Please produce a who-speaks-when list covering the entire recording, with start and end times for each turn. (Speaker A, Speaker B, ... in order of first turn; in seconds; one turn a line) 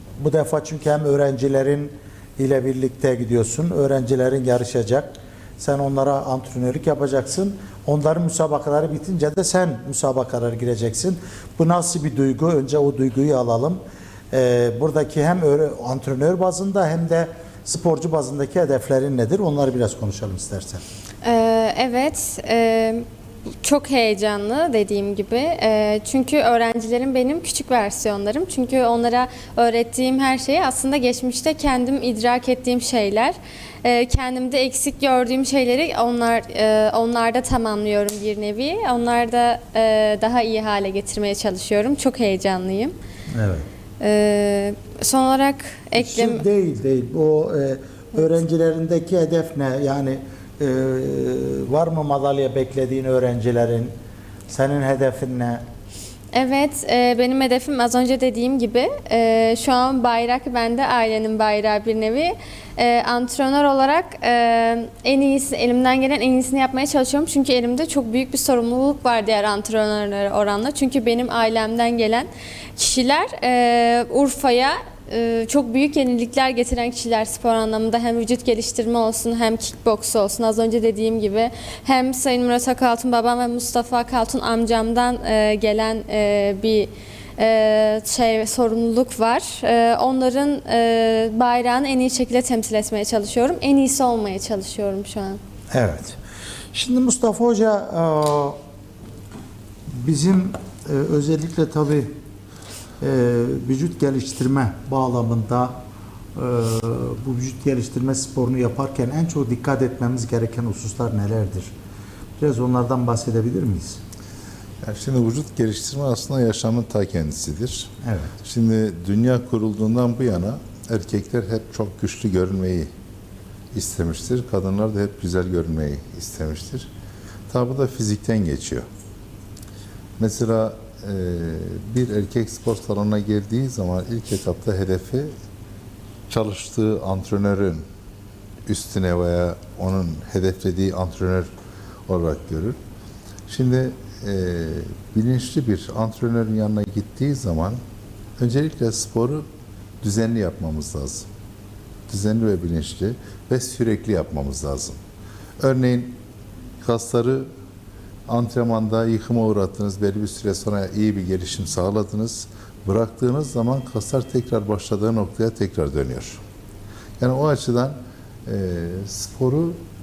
Speaker A: 0.2-13.8
Speaker A: 14.3-20.8
Speaker B: 21.2-23.0
Speaker B: 23.6-42.9
Speaker A: 43.3-43.6
Speaker B: 44.0-46.4
Speaker A: 46.0-53.9
Speaker A: 54.5-55.6
Speaker B: 56.3-95.4
Speaker A: 95.7-96.2
Speaker A: 96.7-98.6
Speaker A: 100.0-102.1
Speaker A: 103.0-105.7
Speaker A: 106.3-111.7
Speaker A: 112.4-114.0
Speaker C: 114.8-117.9
Speaker A: 118.0-118.3
Speaker C: 118.4-122.9
Speaker C: 123.7-126.9
Speaker C: 127.5-128.8
Speaker C: 130.2-135.3
Speaker C: 136.3-137.8
Speaker C: 138.7-141.5
Speaker C: 142.1-142.8
Speaker C: 143.5-147.8
Speaker C: 148.4-149.4
Speaker C: 150.0-151.3
Speaker C: 152.1-155.0
Speaker C: 155.6-156.2
Speaker C: 156.8-157.5
Speaker C: 158.3-166.4
Speaker C: 167.2-169.8